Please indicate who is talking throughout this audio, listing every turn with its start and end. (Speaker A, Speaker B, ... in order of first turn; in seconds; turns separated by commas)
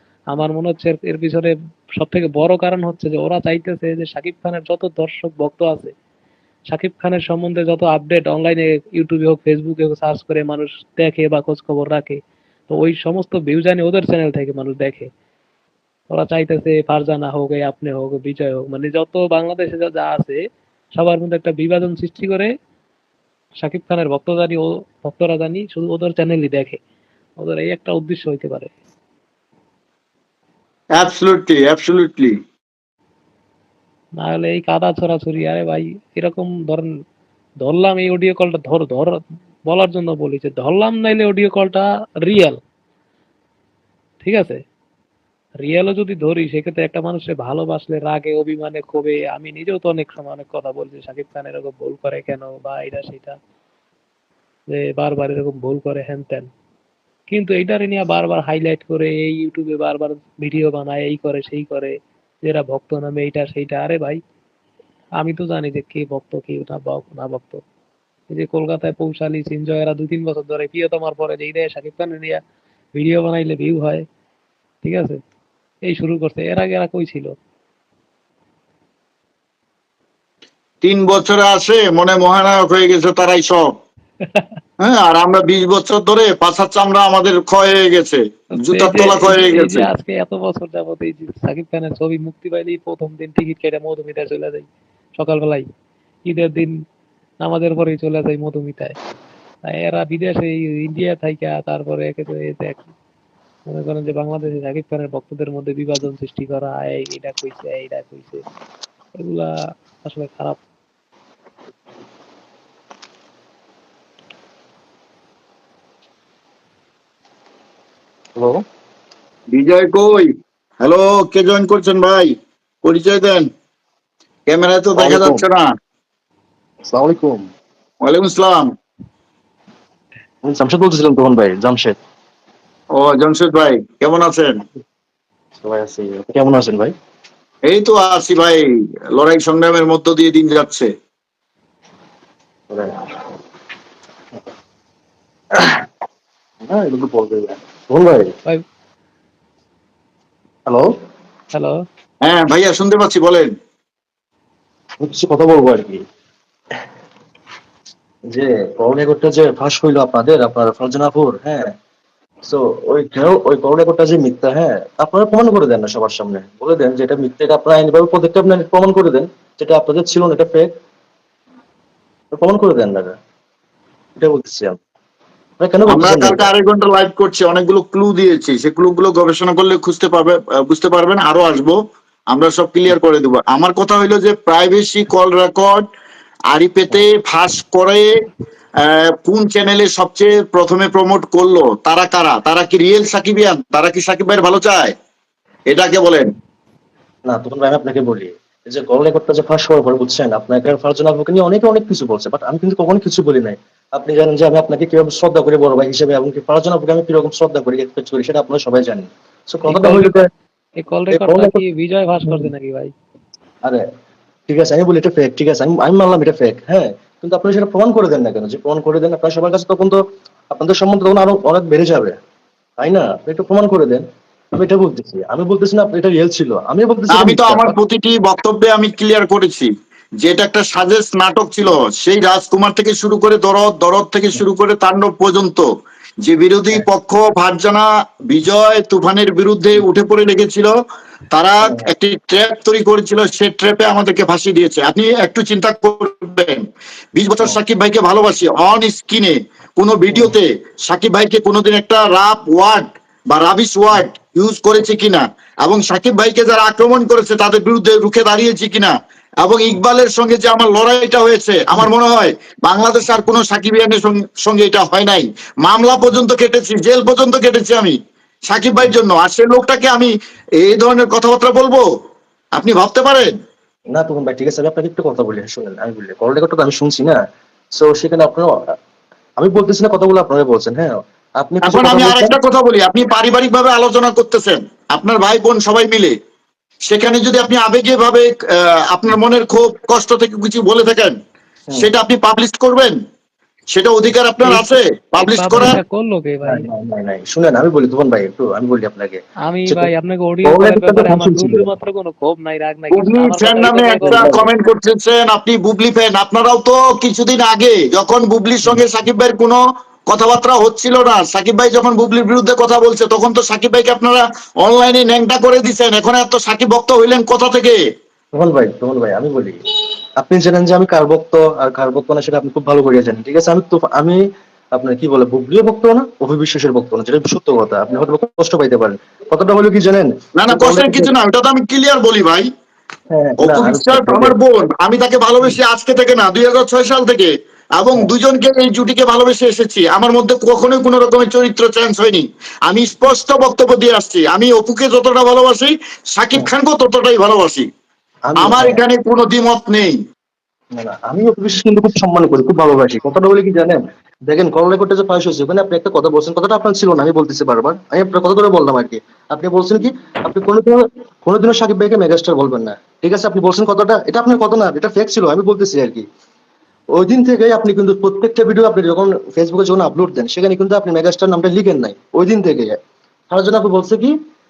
Speaker A: 0.3-5.9, Speaker A: 6.7-15.1, Speaker A: 16.1-20.4, Speaker A: 20.9-22.5, Speaker A: 23.6-26.8, Speaker A: 27.4-28.7, Speaker B: 30.9-32.4, Speaker A: 34.2-36.9, Speaker A: 37.6-42.6, Speaker A: 44.2-44.6, Speaker A: 45.6-53.4, Speaker A: 54.7-56.5, Speaker A: 57.3-64.2, Speaker A: 65.2-67.6, Speaker A: 68.3-72.4, Speaker A: 72.9-74.0, Speaker A: 74.8-75.2, Speaker A: 75.9-77.3, Speaker B: 80.8-83.7, Speaker A: 84.2-84.5, Speaker B: 84.8-89.9, Speaker A: 88.6-95.7, Speaker A: 96.2-96.7, Speaker A: 97.4-99.0, Speaker A: 99.7-102.9, Speaker A: 103.7-108.4, Speaker A: 109.2-110.6, Speaker C: 118.3-118.6, Speaker B: 119.5-120.3, Speaker B: 120.8-122.3, Speaker B: 122.8-123.5, Speaker B: 124.5-125.6, Speaker C: 125.0-125.4, Speaker C: 126.9-127.5, Speaker B: 128.0-128.7, Speaker C: 130.4-132.0, Speaker B: 132.9-134.5, Speaker C: 135.6-136.9, Speaker B: 137.7-138.6, Speaker B: 139.2-140.9, Speaker C: 142.7-142.9, Speaker C: 145.5-145.8, Speaker C: 146.7-148.3, Speaker B: 152.2-153.5, Speaker C: 155.0-156.0, Speaker C: 158.3-161.7, Speaker C: 162.4-170.7, Speaker C: 172.3-173.2, Speaker C: 174.2-174.8, Speaker C: 175.6-176.5, Speaker B: 175.9-181.8, Speaker B: 182.3-185.8, Speaker B: 186.5-188.1, Speaker B: 188.8-194.9, Speaker B: 195.7-196.3, Speaker C: 197.2-210.3, Speaker A: 209.7-210.2, Speaker A: 210.8-212.9, Speaker C: 211.1-211.6, Speaker C: 214.5-222.2, Speaker C: 222.8-227.7, Speaker B: 227.1-229.7, Speaker B: 230.2-235.7, Speaker B: 236.2-240.7, Speaker B: 241.3-246.6, Speaker C: 241.6-241.9, Speaker B: 247.1-267.9, Speaker B: 268.5-271.9, Speaker B: 272.6-273.3, Speaker C: 273.9-277.2, Speaker C: 277.7-278.5, Speaker C: 279.4-282.4, Speaker B: 281.6-286.1, Speaker B: 286.9-288.3, Speaker B: 288.9-291.1, Speaker B: 291.8-293.0, Speaker B: 293.7-295.8, Speaker A: 294.4-296.7, Speaker C: 296.4-299.9, Speaker A: 299.4-304.3, Speaker C: 300.4-301.6, Speaker B: 302.9-309.6, Speaker C: 304.0-304.5, Speaker B: 310.1-317.8, Speaker C: 318.3-319.6, Speaker C: 320.2-324.2, Speaker C: 324.7-331.1, Speaker B: 330.4-332.5, Speaker C: 333.1-334.4, Speaker B: 333.4-347.7, Speaker C: 348.2-348.8, Speaker B: 348.4-349.9, Speaker C: 350.7-366.0, Speaker C: 366.9-372.8, Speaker C: 373.3-374.1